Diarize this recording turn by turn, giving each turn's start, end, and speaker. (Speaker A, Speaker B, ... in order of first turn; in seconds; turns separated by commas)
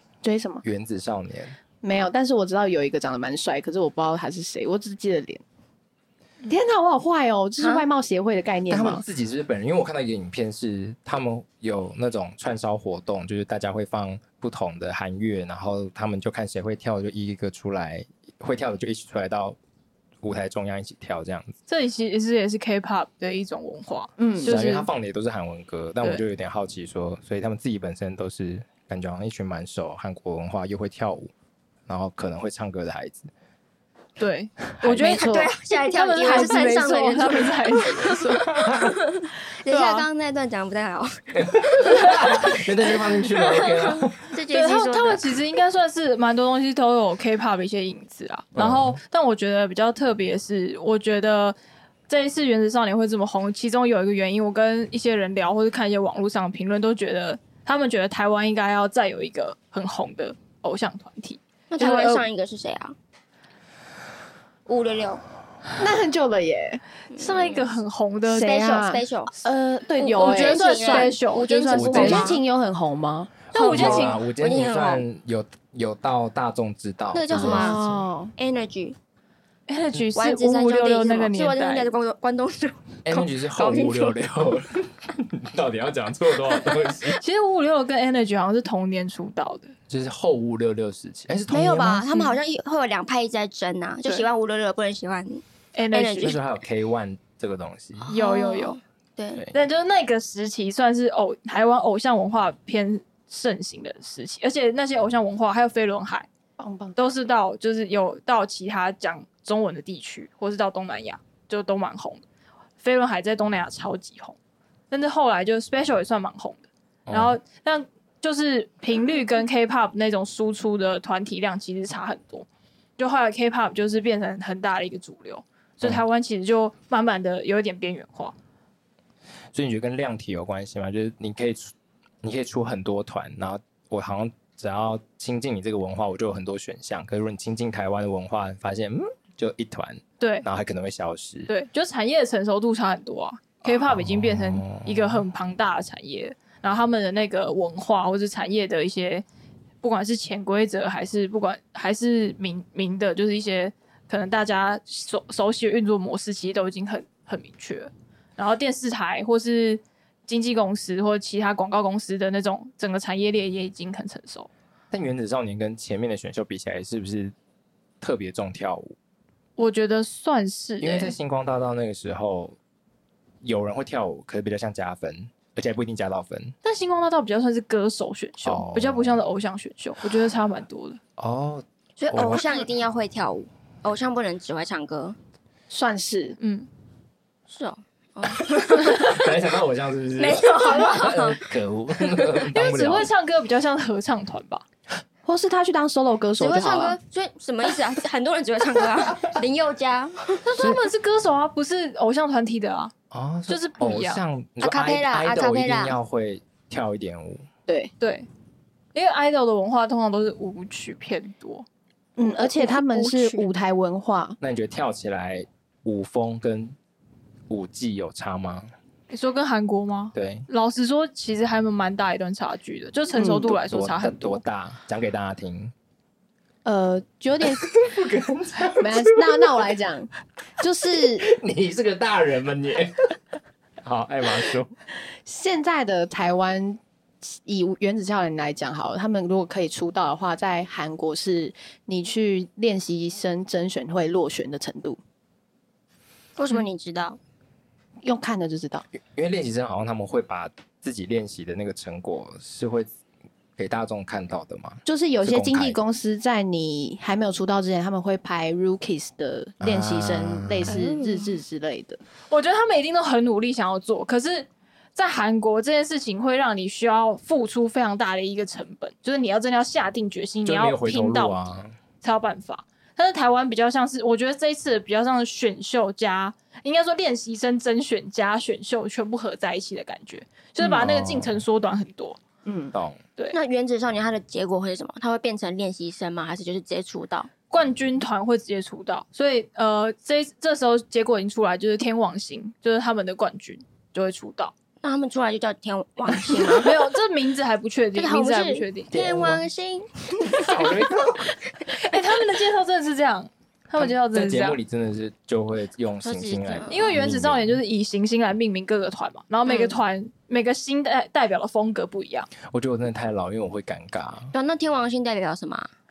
Speaker A: 0.2-0.6, Speaker B: 0.6-1.6, Speaker A: 1.8-5.4, Speaker A: 6.5-9.1, Speaker C: 7.6-7.9, Speaker B: 8.7-19.6, Speaker B: 20.2-21.6, Speaker D: 21.7-24.9, Speaker A: 24.2-24.5, Speaker B: 24.4-31.3, Speaker B: 31.9-33.3, Speaker D: 34.2-38.5, Speaker B: 34.8-35.2, Speaker C: 35.0-38.2, Speaker A: 35.0-35.5, Speaker B: 38.5-39.0, Speaker C: 39.1-42.5, Speaker D: 39.7-40.1, Speaker B: 41.4-44.3, Speaker C: 43.7-45.3, Speaker D: 44.5-51.6, Speaker B: 48.5-49.0, Speaker D: 52.1-62.3, Speaker C: 61.7-63.0, Speaker C: 64.7-65.2, Speaker A: 65.8-66.8, Speaker C: 67.1-67.7, Speaker D: 67.2-68.5, Speaker A: 68.3-71.2, Speaker C: 68.3-69.3, Speaker C: 70.0-72.4, Speaker D: 70.1-72.4, Speaker A: 71.7-73.4, Speaker B: 73.5-78.0, Speaker D: 73.5-74.2, Speaker C: 73.5-75.0, Speaker C: 77.1-79.0, Speaker A: 77.3-78.3, Speaker D: 79.7-81.9, Speaker C: 80.2-84.2, Speaker B: 83.1-87.2, Speaker D: 87.2-89.7, Speaker B: 89.9-92.2, Speaker C: 91.5-96.4, Speaker D: 95.7-96.4, Speaker B: 96.2-98.1, Speaker C: 98.0-99.5, Speaker D: 98.1-98.8, Speaker D: 99.5-106.3, Speaker A: 106.6-107.0, Speaker D: 107.0-112.2, Speaker D: 112.8-114.4, Speaker D: 114.9-122.5, Speaker B: 117.1-117.4, Speaker D: 123.0-128.3, Speaker B: 129.5-141.5, Speaker D: 140.2-140.4, Speaker D: 141.5-149.2, Speaker B: 143.6-145.3, Speaker D: 149.8-164.5, Speaker B: 164.9-167.3, Speaker B: 168.0-169.0, Speaker D: 169.6-171.2, Speaker B: 170.8-172.6, Speaker B: 173.4-176.5, Speaker D: 176.6-181.0, Speaker B: 178.4-179.2, Speaker B: 181.2-182.7, Speaker C: 182.0-185.2, Speaker A: 185.7-186.4, Speaker D: 186.4-186.7, Speaker C: 187.5-189.2, Speaker B: 189.0-193.1, Speaker C: 190.2-191.4, Speaker D: 192.5-194.6, Speaker A: 195.3-197.0, Speaker C: 196.4-200.4, Speaker D: 200.4-202.9, Speaker B: 203.1-207.4, Speaker D: 203.5-204.2, Speaker C: 204.6-206.0, Speaker A: 207.7-207.9, Speaker D: 208.0-208.3, Speaker D: 208.9-211.7, Speaker A: 212.2-214.4, Speaker C: 212.2-213.5, Speaker B: 214.4-216.8, Speaker B: 217.5-218.7, Speaker D: 219.1-224.4, Speaker B: 220.1-220.5, Speaker A: 223.1-223.6, Speaker B: 223.6-225.7, Speaker A: 226.7-227.6, Speaker B: 227.5-229.7, Speaker A: 228.8-231.2, Speaker B: 231.2-233.2, Speaker B: 233.8-234.7, Speaker A: 235.3-245.0, Speaker C: 246.4-247.2, Speaker A: 248.0-248.8, Speaker B: 248.9-252.9, Speaker B: 253.6-255.8, Speaker A: 254.8-262.0, Speaker B: 259.6-260.8, Speaker D: 260.7-261.4, Speaker D: 262.3-271.5, Speaker B: 270.4-271.8, Speaker D: 272.0-282.2, Speaker B: 280.8-281.4, Speaker A: 282.4-282.7, Speaker B: 282.7-283.0, Speaker C: 283.3-287.3, Speaker D: 287.5-294.5, Speaker C: 294.8-296.7, Speaker D: 296.5-298.9, Speaker C: 297.9-300.9, Speaker B: 298.9-299.4, Speaker B: 300.5-301.2, Speaker D: 301.7-304.6, Speaker B: 303.8-307.6, Speaker C: 306.0-306.9, Speaker D: 306.7-312.3, Speaker C: 309.5-309.8, Speaker B: 312.5-314.3, Speaker C: 314.3-315.7